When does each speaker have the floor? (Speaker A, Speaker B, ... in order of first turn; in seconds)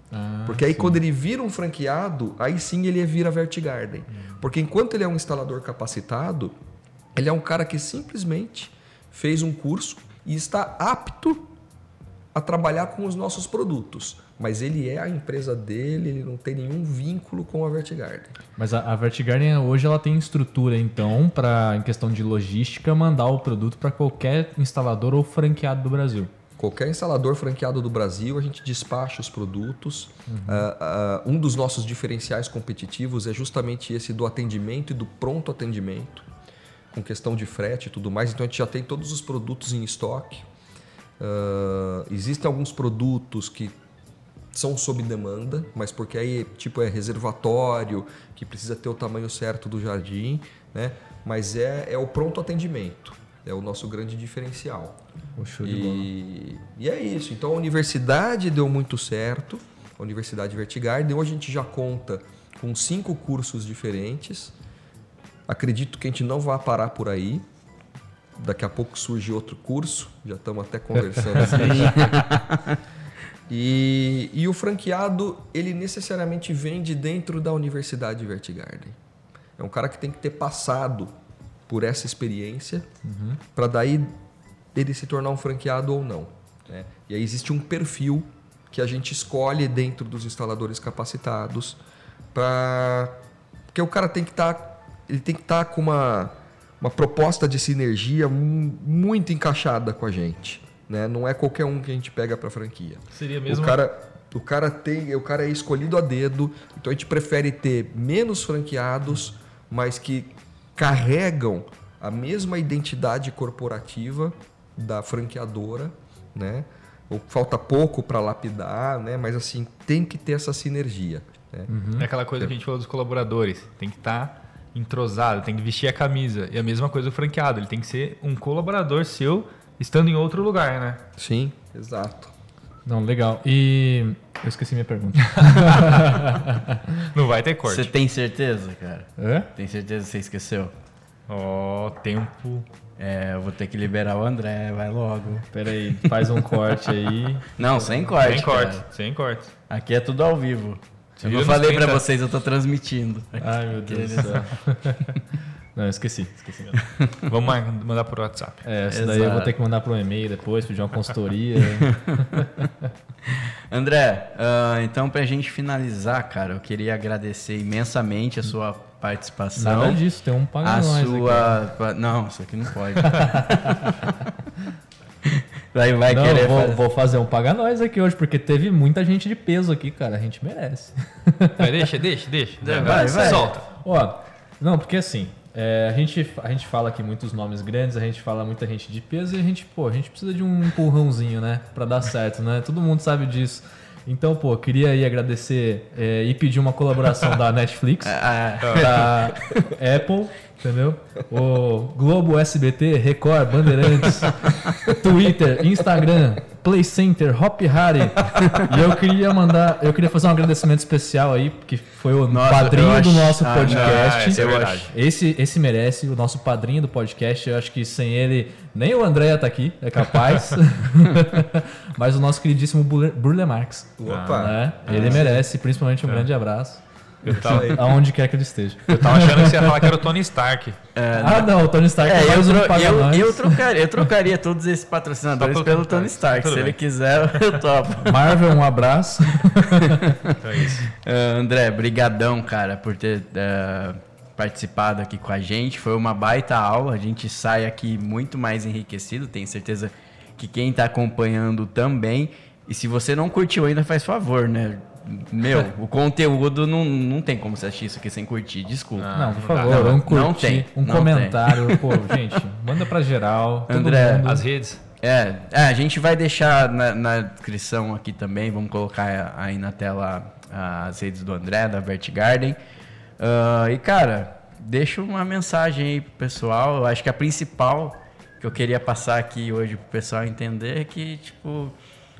Speaker A: 0.1-1.0, 18.6-26.3, 30.3-30.7, 55.4-56.1, 83.0-83.4, 121.7-122.1, 132.8-137.1, 139.2-139.5, 145.5-148.1, 153.4-155.2, 155.7-156.8, 158.6-162.7, 169.6-171.6, 173.0-173.9, 176.1-181.7, 182.8-198.2, 198.7-229.9, 231.1-233.6, 238.0-240.0, 259.1-264.4
Speaker B: 0.5-6.5, 7.1-11.5, 12.3-18.3, 26.6-36.3, 36.9-40.5, 41.2-43.7, 44.5-55.0, 55.6-64.5, 65.5-67.4, 68.4-72.2, 73.5-79.0, 79.6-81.1, 81.7-82.9, 83.5-84.1, 84.7-91.8, 92.3-93.1, 93.7-121.7, 131.2-132.3, 224.0-225.2, 227.4-227.9
Speaker C: 71.7-72.8, 137.7-140.7, 143.0-146.3, 147.6-148.8, 149.7-154.5, 156.8-157.2, 158.9-159.5, 161.6-162.4, 163.3-170.0, 170.6-174.0, 175.3-176.8, 182.6-183.6, 198.0-199.5, 212.3-214.9, 224.9-225.3, 230.9-238.4, 239.6-262.3, 263.7-264.3, 265.0-272.6, 273.2-281.7
Speaker D: 103.1-103.8, 122.0-131.0, 135.3-136.2, 137.1-137.9, 141.3-142.7, 148.2-149.5, 151.2-152.0, 157.3-158.6, 181.6-183.6, 198.6-199.0, 213.6-214.9, 224.1-225.2, 227.2-227.8, 228.9-230.8, 235.4-236.8, 237.3-237.6, 240.4-240.8, 258.9-260.0, 264.2-264.8